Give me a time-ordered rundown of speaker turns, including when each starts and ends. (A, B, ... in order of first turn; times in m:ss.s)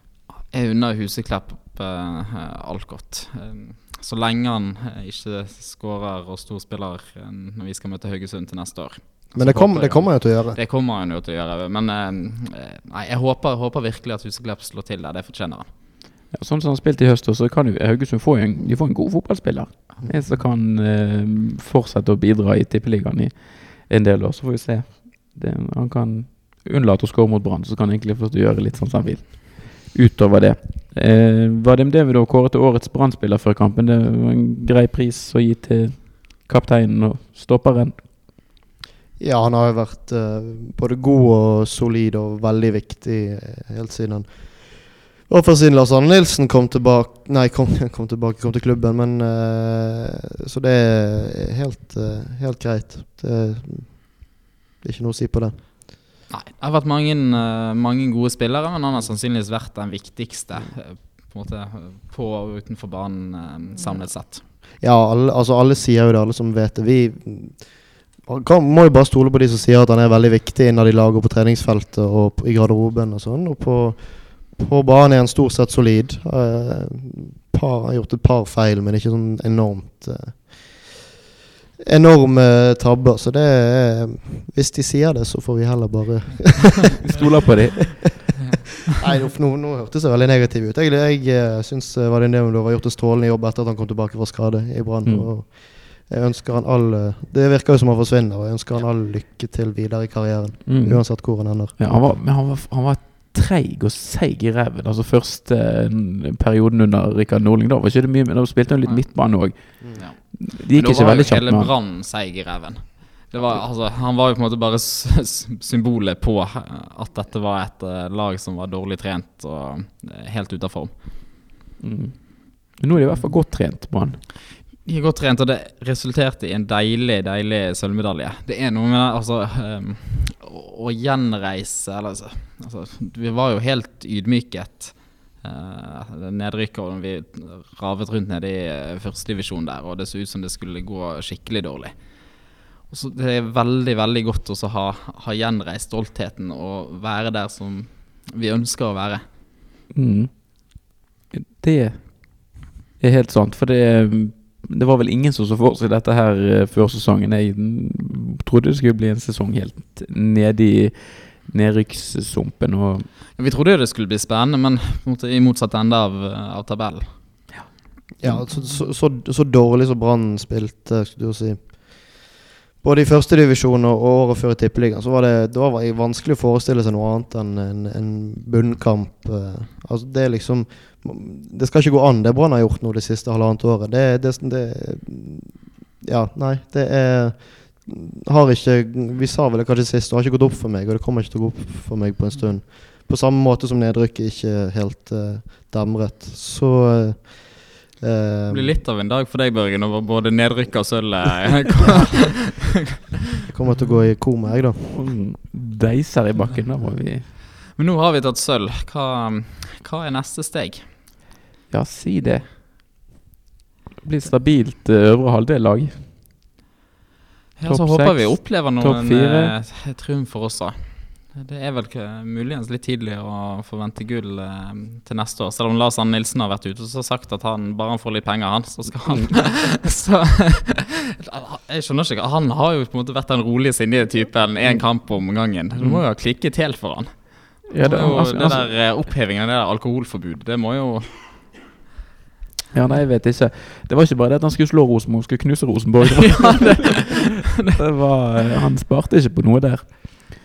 0:00.4-0:15.7 A
0:09.3-0:10.6 B
0:16.3-0:38.0 C
0:39.2-0:55.6 B
0:56.3-1:04.4 A
1:04.8-1:21.1 B
1:21.8-1:27.2 B
1:27.0-1:28.1 C
1:29.0-1:41.8 B
1:35.0-1:35.3 C
1:40.6-1:51.7 C
1:48.8-2:00.9 A
1:49.8-1:50.1 B
2:01.8-2:04.2 C
2:04.8-2:29.2 A
2:29.9-2:43.1 C
2:43.4-2:47.2 A
2:48.2-2:52.3 B
2:52.8-3:18.8 B
3:18.5-3:22.6 A
3:23.5-3:25.1 B
3:24.9-3:27.3 C
3:27.7-3:30.9 A
3:31.7-3:32.6 C
3:34.0-3:36.1 C
3:37.6-4:01.5 A
3:37.6-3:39.5 C
3:49.1-3:49.3 C
3:54.6-3:56.0 C
3:57.7-3:58.7 C
4:02.7-4:10.2 C
4:06.5-4:07.7 A